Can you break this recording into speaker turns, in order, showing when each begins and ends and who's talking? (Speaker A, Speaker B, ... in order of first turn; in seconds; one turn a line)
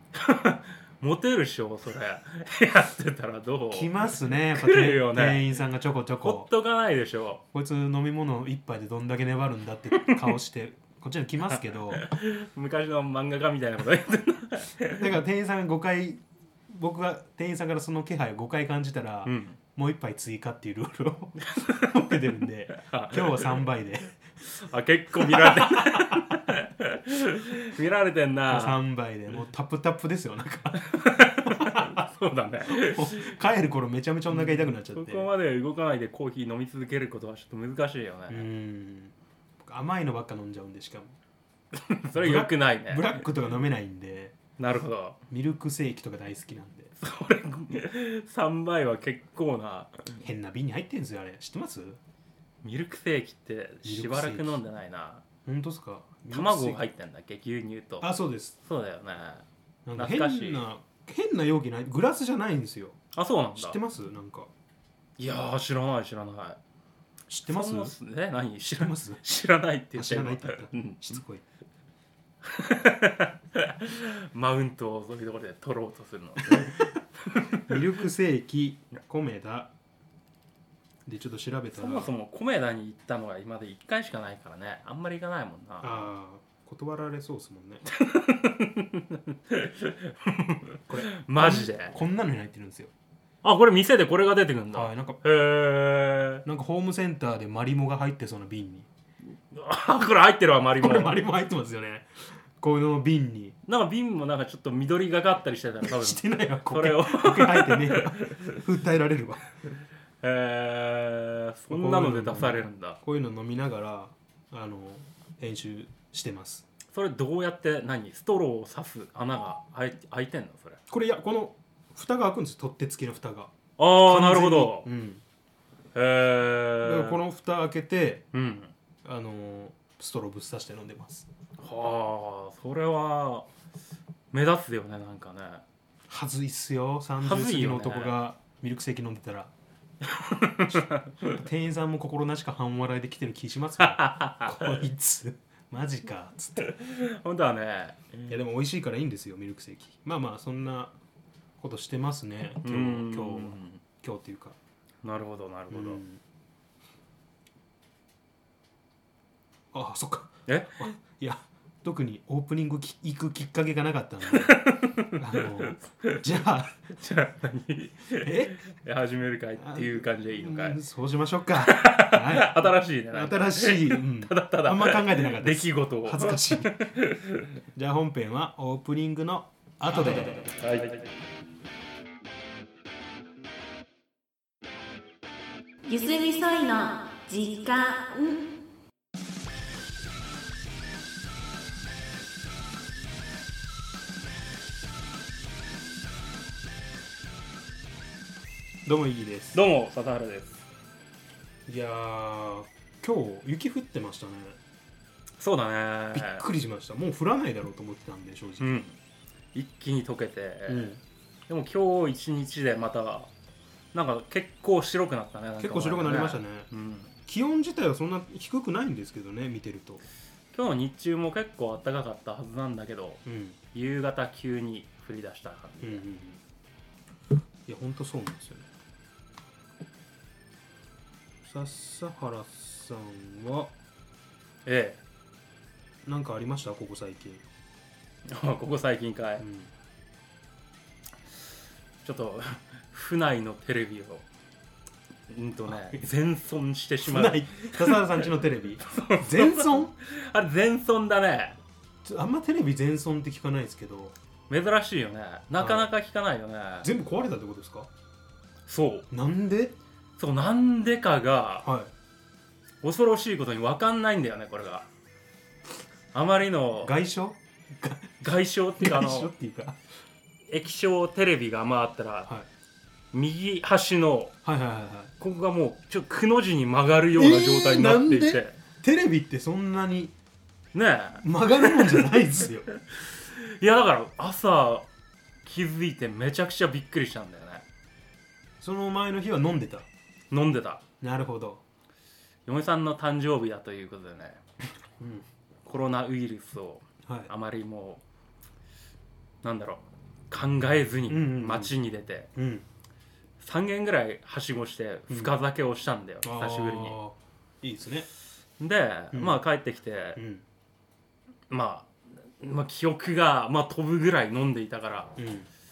Speaker A: 0.1-5.6
Speaker B: 3.7-6.5
Speaker A: 6.2-7.4
Speaker B: 7.5-12.1
Speaker A: 11.9-15.0
Speaker B: 14.9-24.3
Speaker A: 19.3-19.6
Speaker A: 21.5-21.9
Speaker A: 22.7-23.6
Speaker A: 24.5-28.8
Speaker B: 25.2-26.3
Speaker B: 28.5-32.0
Speaker A: 30.8-33.4
Speaker B: 32.7-35.3
Speaker A: 34.3-38.5
Speaker B: 38.3-41.2
Speaker A: 41.7-43.2
Speaker B: 42.1-44.4
Speaker A: 44.6-45.2
Speaker B: 45.3-46.9
Speaker A: 47.0-50.0
Speaker B: 50.2-52.0
Speaker A: 52.6-55.2
Speaker B: 53.8-54.6
Speaker B: 55.5-56.9
Speaker A: 56.3-58.1
Speaker B: 58.0-58.6
Speaker A: 58.6-59.5
Speaker B: 59.9-63.0
Speaker A: 60.0-60.6
Speaker A: 63.1-63.8
Speaker B: 63.5-64.5
Speaker A: 65.2-66.6
Speaker B: 67.3-68.0
Speaker A: 67.5-71.2
Speaker B: 68.6-69.2
Speaker B: 70.0-71.4
Speaker A: 72.4-77.8
Speaker B: 76.4-77.0
Speaker B: 77.7-79.7
Speaker B: 81.1-82.1
Speaker A: 81.7-86.1
Speaker B: 85.8-87.8
Speaker A: 87.9-92.0
Speaker B: 90.9-92.9
Speaker A: 93.4-96.4
Speaker B: 94.7-95.2
Speaker B: 96.5-98.9
Speaker A: 99.5-101.2
Speaker B: 100.8-103.6
Speaker A: 103.7-108.6
Speaker B: 105.8-109.5
Speaker A: 110.2-113.0
Speaker B: 111.7-116.7
Speaker A: 116.9-120.8
Speaker B: 120.9-125.2
Speaker A: 123.8-124.9
Speaker A: 126.0-127.2
Speaker B: 126.8-128.3
Speaker A: 128.3-128.7
Speaker B: 129.0-131.3
Speaker A: 131.6-133.5
Speaker A: 134.3-135.6
Speaker B: 136.1-139.5
Speaker A: 137.2-138.2
Speaker A: 140.1-141.4
Speaker B: 141.2-146.7
Speaker A: 143.8-144.8
Speaker A: 146.6-148.2
Speaker B: 148.3-150.9
Speaker B: 151.6-154.6
Speaker A: 152.6-153.8
Speaker A: 155.0-156.0
Speaker B: 155.7-156.2
Speaker B: 159.7-166.8
Speaker A: 160.5-160.9
Speaker A: 164.3-166.2
Speaker A: 166.9-170.8
Speaker B: 168.2-168.6
Speaker B: 169.6-176.8
Speaker A: 171.6-177.5
Speaker B: 177.7-180.5
Speaker A: 180.2-181.1
Speaker C: 185.9-188.6
Speaker B: 198.8-199.6
Speaker A: 199.5-200.7
Speaker B: 201.7-204.6
Speaker A: 205.4-206.4
Speaker B: 206.1-208.8
Speaker A: 208.6-209.0
Speaker A: 209.5-213.3
Speaker B: 210.7-211.0
Speaker A: 213.9-217.2
Speaker B: 215.6-216.7
Speaker B: 217.2-220.0
Speaker A: 220.5-226.0
Speaker B: 223.2-223.6
Speaker B: 225.8-226.4
Speaker B: 227.7-228.7
Speaker B: 231.4-233.7
Speaker A: 234.7-235.0
Speaker B: 236.1-237.4
Speaker A: 238.3-239.5
Speaker B: 239.4-239.7
Speaker A: 242.0-244.2
Speaker A: 245.3-248.3
Speaker B: 245.7-246.0
Speaker B: 247.1-249.9
Speaker A: 248.9-251.6
Speaker B: 252.1-254.2
Speaker A: 254.5-256.9
Speaker B: 255.6-255.9
Speaker B: 256.8-257.9
Speaker A: 258.7-259.1
Speaker B: 259.1-259.8
Speaker A: 260.2-261.7
Speaker B: 261.6-261.9
Speaker A: 262.8-264.9
Speaker A: 266.1-266.9
Speaker B: 266.8-269.8
Speaker A: 268.2-269.3
Speaker A: 270.5-272.3
Speaker A: 273.1-274.4
Speaker B: 274.4-275.1
Speaker A: 275.2-278.6
Speaker B: 277.1-280.1
Speaker A: 280.7-282.2
Speaker B: 281.2-282.7
Speaker A: 282.8-284.9
Speaker A: 285.4-287.6
Speaker B: 288.6-289.9
Speaker A: 290.3-290.8
Speaker B: 291.0-291.6
Speaker A: 292.5-294.4
Speaker B: 295.0-295.3
Speaker A: 295.7-298.0
Speaker B: 297.1-297.3
Speaker A: 299.4-302.3
Speaker B: 301.1-301.8
Speaker B: 302.4-302.7
Speaker A: 303.4-307.0
Speaker B: 305.1-305.3
Speaker B: 306.2-308.1
Speaker A: 308.6-310.2
Speaker B: 309.1-309.4
Speaker B: 310.2-310.4
Speaker A: 311.5-315.1
Speaker B: 315.2-315.5